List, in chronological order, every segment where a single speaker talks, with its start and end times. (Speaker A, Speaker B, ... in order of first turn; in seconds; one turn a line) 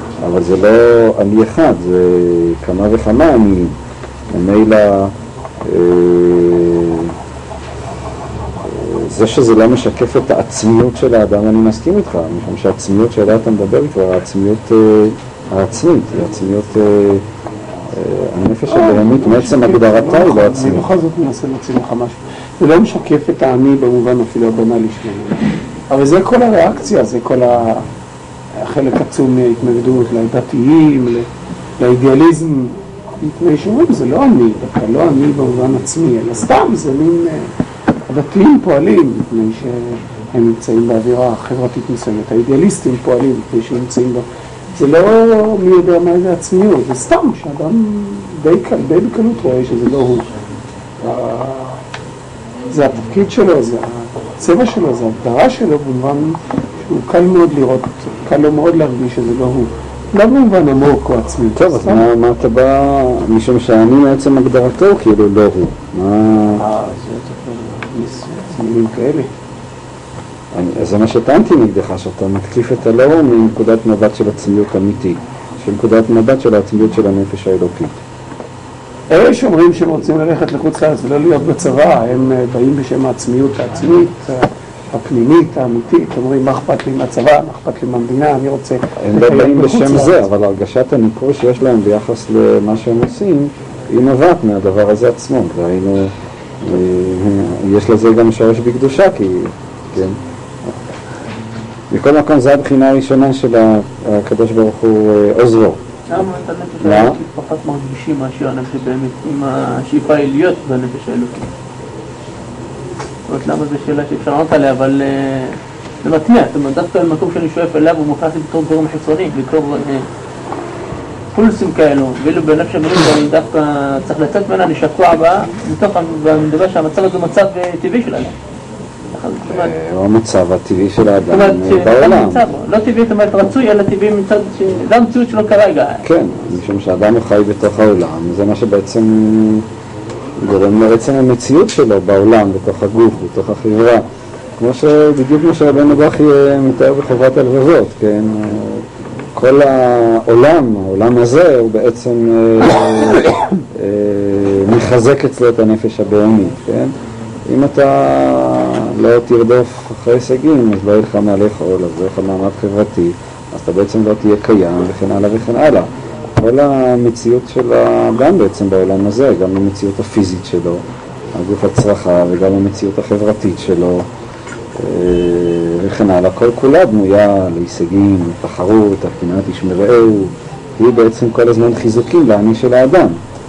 Speaker A: 0.2-3.8
Speaker A: 4.3-5.1
Speaker A: 5.6-7.1
Speaker A: 8.6-17.2
Speaker A: 17.9-20.9
Speaker B: 18.7-27.9
Speaker B: 28.6-31.3
Speaker B: 31.8-37.5
Speaker B: 38.1-50.3
Speaker B: 51.0-51.8
Speaker B: 52.7-62.1
Speaker A: 61.5-66.6
Speaker B: 66.6-69.3
Speaker A: 70.5-78.0
Speaker B: 79.1-90.2
Speaker A: 89.0-100.7
Speaker A: 101.9-105.8
Speaker C: 106.1-111.5
Speaker A: 106.8-107.2
Speaker C: 113.3-120.0
Speaker C: 121.3-128.3
Speaker C: 129.1-129.7
Speaker A: 129.5-132.4
Speaker C: 131.3-136.0
Speaker A: 136.0-139.6
Speaker A: 140.4-144.0
Speaker A: 144.6-156.9
Speaker A: 157.5-170.8
Speaker A: 171.3-174.0
Speaker A: 174.8-183.2